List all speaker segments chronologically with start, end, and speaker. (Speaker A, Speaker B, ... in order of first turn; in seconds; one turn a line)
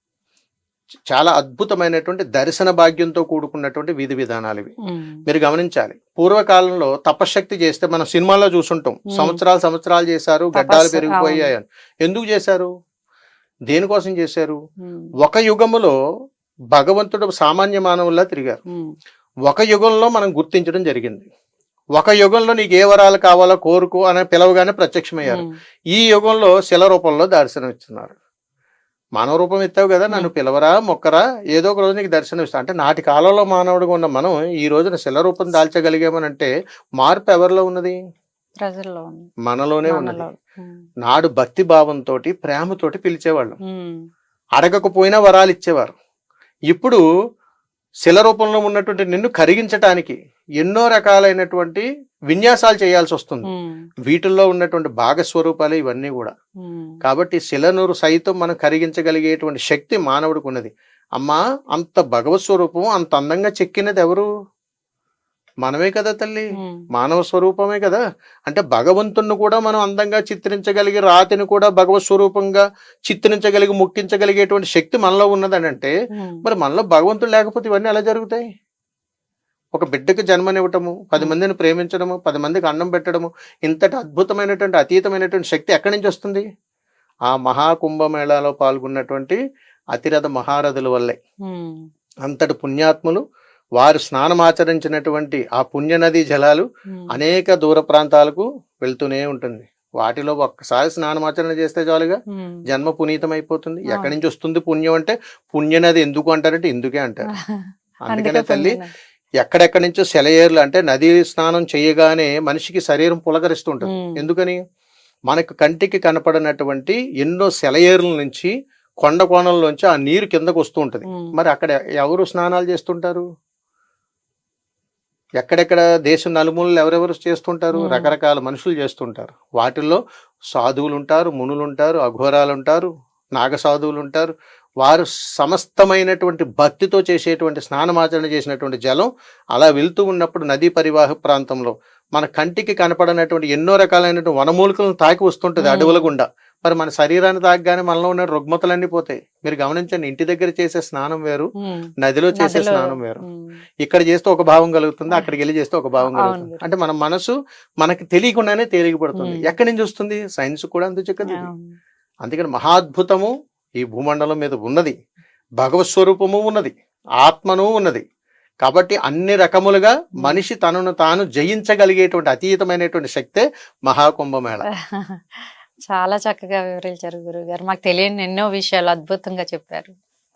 Speaker A: 1.1-4.7
Speaker B: 4.8-5.2
Speaker A: 5.3-12.7
Speaker B: 9.1-9.4
Speaker B: 10.6-11.5
Speaker A: 13.7-14.6
Speaker B: 14.8-15.1
Speaker A: 15.2-15.9
Speaker A: 16.7-18.6
Speaker A: 19.5-21.3
Speaker A: 21.9-28.1
Speaker A: 29.2-38.0
Speaker B: 38.6-39.3
Speaker A: 39.5-40.3
Speaker B: 39.9-40.8
Speaker A: 41.0-43.6
Speaker B: 43.6-44.0
Speaker A: 44.6-45.9
Speaker A: 46.7-47.0
Speaker A: 48.0-53.5
Speaker B: 53.5-53.9
Speaker A: 54.0-56.3
Speaker B: 56.6-57.0
Speaker A: 57.0-64.3
Speaker A: 65.6-78.4
Speaker B: 66.6-66.8
Speaker B: 76.1-76.4
Speaker A: 79.7-86.4
Speaker A: 87.3-89.4
Speaker A: 89.9-91.2
Speaker B: 91.5-91.9
Speaker A: 92.2-93.2
Speaker A: 93.8-107.3
Speaker B: 96.9-97.2
Speaker B: 102.3-102.6
Speaker B: 103.9-104.1
Speaker B: 107.3-108.9
Speaker A: 108.1-108.8
Speaker A: 109.4-114.6
Speaker B: 113.9-114.2
Speaker A: 115.3-123.2
Speaker A: 125.4-130.0
Speaker B: 127.8-128.1
Speaker A: 130.5-151.5
Speaker B: 145.6-146.1
Speaker B: 151.6-153.6
Speaker A: 152.0-153.2
Speaker A: 153.8-161.5
Speaker B: 156.1-156.7
Speaker B: 159.2-159.6
Speaker B: 161.2-161.8
Speaker A: 162.2-164.9
Speaker A: 165.6-168.0
Speaker A: 168.6-174.6
Speaker B: 174.9-179.9